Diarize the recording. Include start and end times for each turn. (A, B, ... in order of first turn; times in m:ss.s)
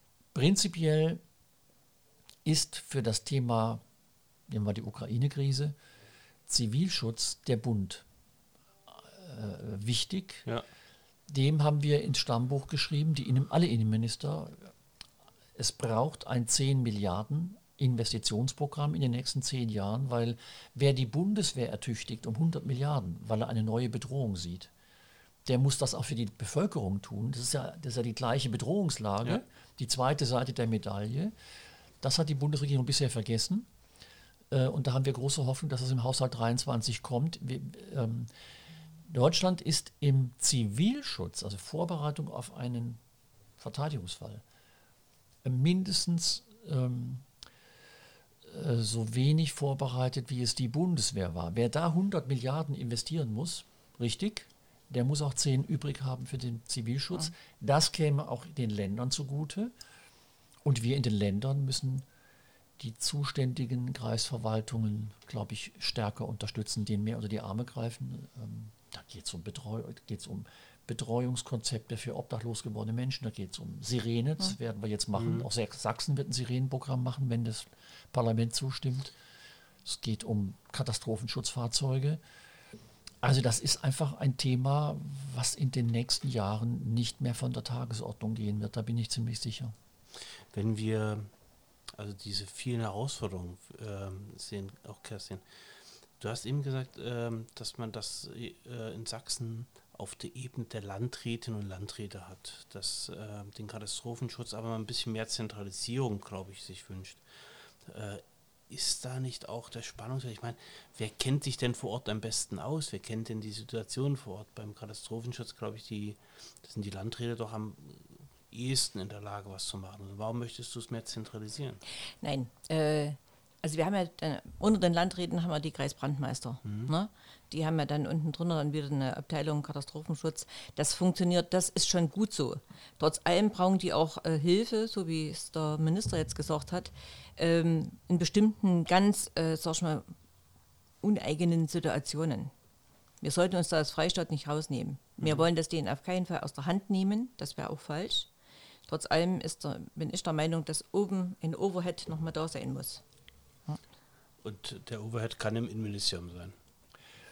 0:00.3-0:01.2 A
0:02.4-0:03.8 A
0:04.5-0:05.8 A
0:06.5-0:08.0 A
0:08.9-0:10.5 A
0:11.3-0:14.7 A
0:15.6-0:24.7 A
0:25.4-0:31.3 A
0:32.0-0:33.7 A
0:34.5-0:38.3 A
0:39.0-0:43.0 A
0:43.6-0:44.4 A
0:45.4-0:47.3 A
0:48.4-0:59.7 A
1:00.6-1:02.0 A
1:02.8-1:19.1 A
1:15.1-1:15.5 B
1:19.8-1:22.2 A
1:23.2-1:29.7 A
1:30.5-1:31.3 B
1:31.9-1:35.4 B
1:36.2-1:47.2 B
1:47.8-2:01.8 B
2:02.2-2:20.1 C
2:06.6-2:06.9 B
2:21.0-2:22.5 C
2:23.2-2:28.3 C
2:25.2-2:25.4 B
2:28.9-2:33.0 C
2:34.4-2:36.6 B